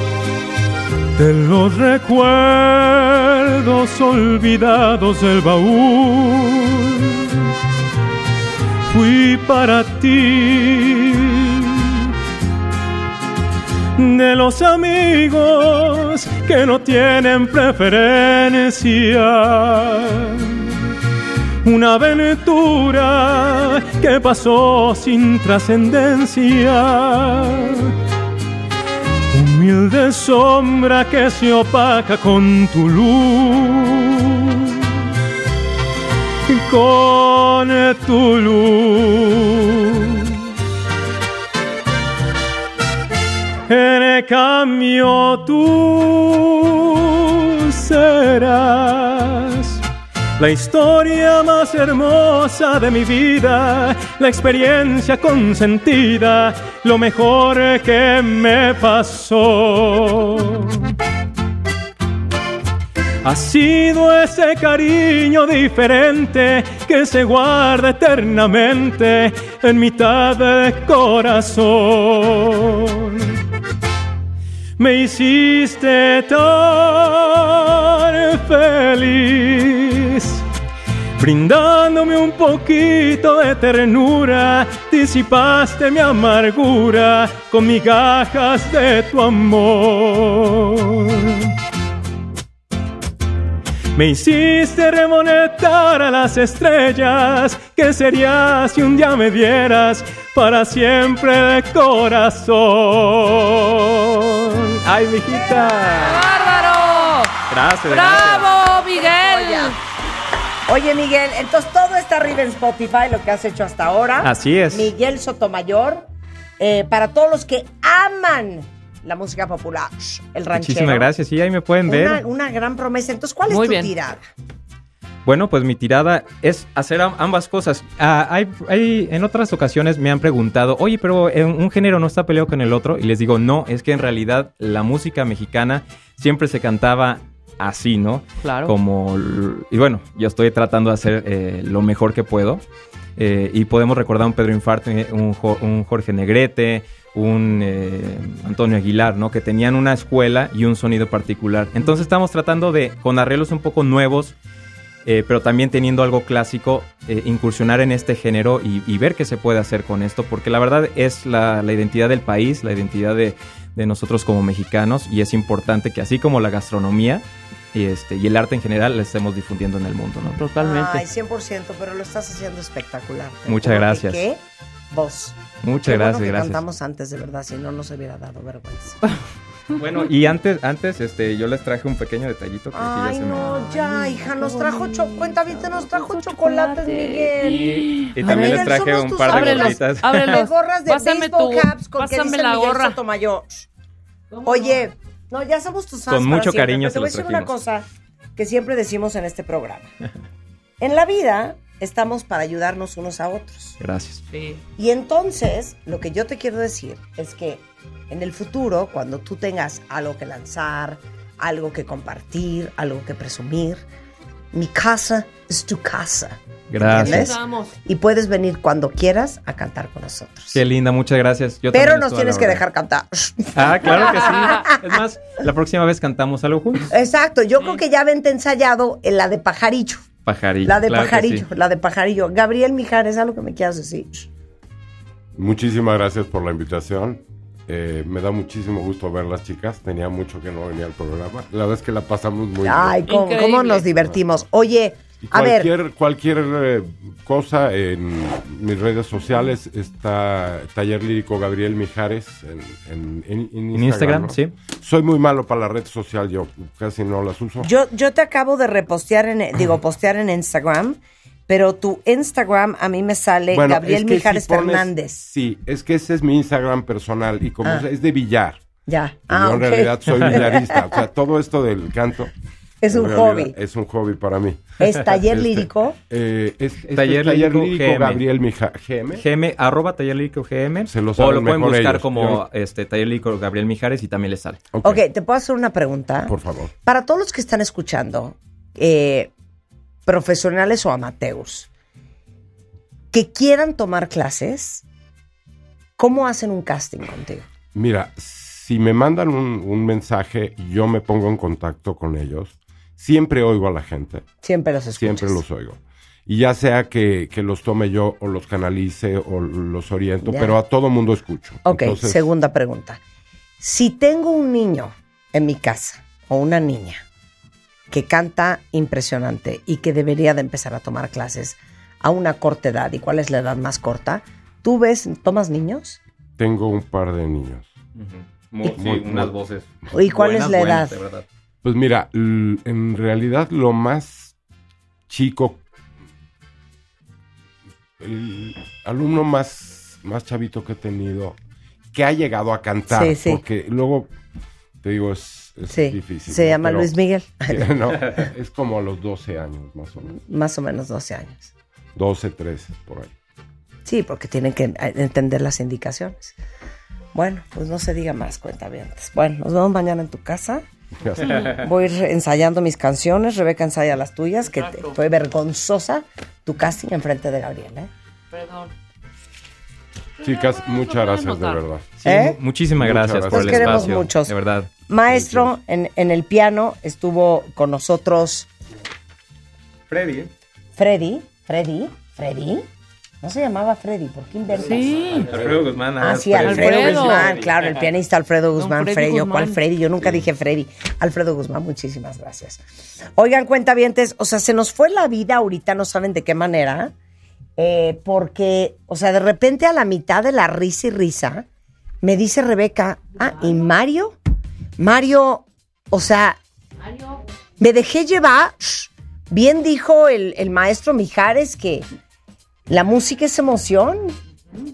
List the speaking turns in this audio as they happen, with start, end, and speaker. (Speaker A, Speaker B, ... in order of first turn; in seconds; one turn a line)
Speaker A: 1.1-7.5
Speaker A: 8.9-12.1
Speaker A: 14.0-20.8
Speaker A: 21.6-27.9
Speaker A: 29.3-35.0
Speaker A: 36.5-40.5
Speaker A: 43.7-49.8
Speaker A: 50.4-60.9
Speaker A: 63.2-73.4
Speaker A: 74.8-80.4
Speaker A: 81.2-91.5
Speaker A: 93.9-104.6
Speaker B: 104.8-106.3
Speaker C: 106.0-107.3
Speaker B: 107.5-108.5
Speaker C: 107.9-109.8
Speaker D: 108.4-109.8
Speaker D: 110.7-116.0
Speaker B: 114.2-114.9
Speaker D: 116.6-121.1
Speaker B: 120.5-122.2
Speaker D: 121.8-124.2
Speaker C: 123.5-123.9
Speaker B: 125.2-142.6
Speaker C: 138.4-138.7
Speaker B: 143.2-154.3
Speaker B: 155.0-170.4
Speaker C: 170.3-171.0
Speaker D: 170.6-179.0
Speaker B: 173.4-174.2
Speaker B: 175.6-176.6
Speaker B: 179.8-183.6
Speaker D: 182.7-193.7
Speaker C: 183.4-193.0
Speaker B: 188.1-190.4
Speaker C: 194.3-194.8
Speaker D: 194.4-197.8
Speaker B: 196.1-197.5
Speaker D: 198.3-199.9
Speaker D: 200.8-203.8
Speaker B: 203.8-204.2
Speaker C: 204.3-204.6
Speaker D: 204.8-213.8
Speaker D: 214.5-220.6
Speaker B: 216.7-217.3
Speaker C: 216.9-217.7
Speaker B: 220.5-222.6
Speaker D: 221.7-224.8
Speaker B: 223.5-226.9
Speaker D: 226.9-230.0
Speaker B: 230.2-231.4
Speaker D: 230.6-234.3
Speaker E: 235.3-243.0
Speaker D: 242.6-245.7
Speaker C: 243.1-243.9
Speaker E: 245.2-257.7
Speaker B: 253.7-254.5
Speaker D: 257.6-265.2
Speaker E: 263.5-268.6
Speaker D: 268.9-271.0
Speaker E: 269.3-272.3
Speaker D: 272.8-273.5
Speaker E: 272.9-279.2
Speaker D: 274.8-276.0
Speaker B: 276.9-278.2
Speaker B: 279.1-284.6
Speaker E: 280.9-282.4
Speaker E: 284.7-285.0
Speaker D: 284.8-289.3
Speaker E: 286.3-286.7
Speaker D: 290.1-291.7
Speaker D: 293.1-294.8
Speaker D: 296.0-297.4
Speaker E: 297.7-304.2
Speaker D: 304.4-305.4
Speaker E: 305.0-312.3
Speaker D: 310.2-310.6
Speaker D: 311.6-313.0
Speaker D: 313.6-317.0
Speaker D: 317.9-326.0
Speaker E: 326.4-327.7
Speaker B: 327.9-331.2
Speaker E: 328.7-329.3
Speaker D: 329.9-331.0
Speaker E: 331.6-334.3
Speaker E: 335.1-335.6
Speaker E: 338.0-341.4
Speaker E: 341.9-344.1
Speaker D: 342.9-343.4
Speaker E: 344.8-346.9
Speaker D: 345.7-347.7
Speaker E: 347.5-350.1
Speaker D: 350.1-351.5
Speaker E: 351.9-353.1
Speaker D: 353.9-356.4
Speaker D: 357.1-360.6
Speaker E: 361.0-361.4
Speaker D: 361.2-367.9
Speaker C: 364.6-364.9
Speaker C: 368.3-368.7
Speaker C: 370.2-371.6
Speaker E: 370.2-371.9
Speaker B: 372.0-374.7
Speaker D: 372.0-372.4
Speaker E: 372.8-374.0
Speaker D: 373.3-374.3
Speaker D: 374.9-378.5
Speaker E: 375.1-375.5
Speaker B: 379.9-380.3
Speaker D: 380.8-382.7
Speaker D: 383.2-384.9
Speaker C: 384.6-385.3
Speaker B: 385.2-387.9
Speaker D: 386.0-392.6
Speaker C: 386.4-387.3
Speaker C: 388.6-389.6
Speaker D: 393.1-396.9
Speaker D: 397.6-401.4
Speaker D: 402.0-404.1
Speaker D: 404.8-406.4
Speaker D: 407.6-411.9
Speaker D: 412.7-414.1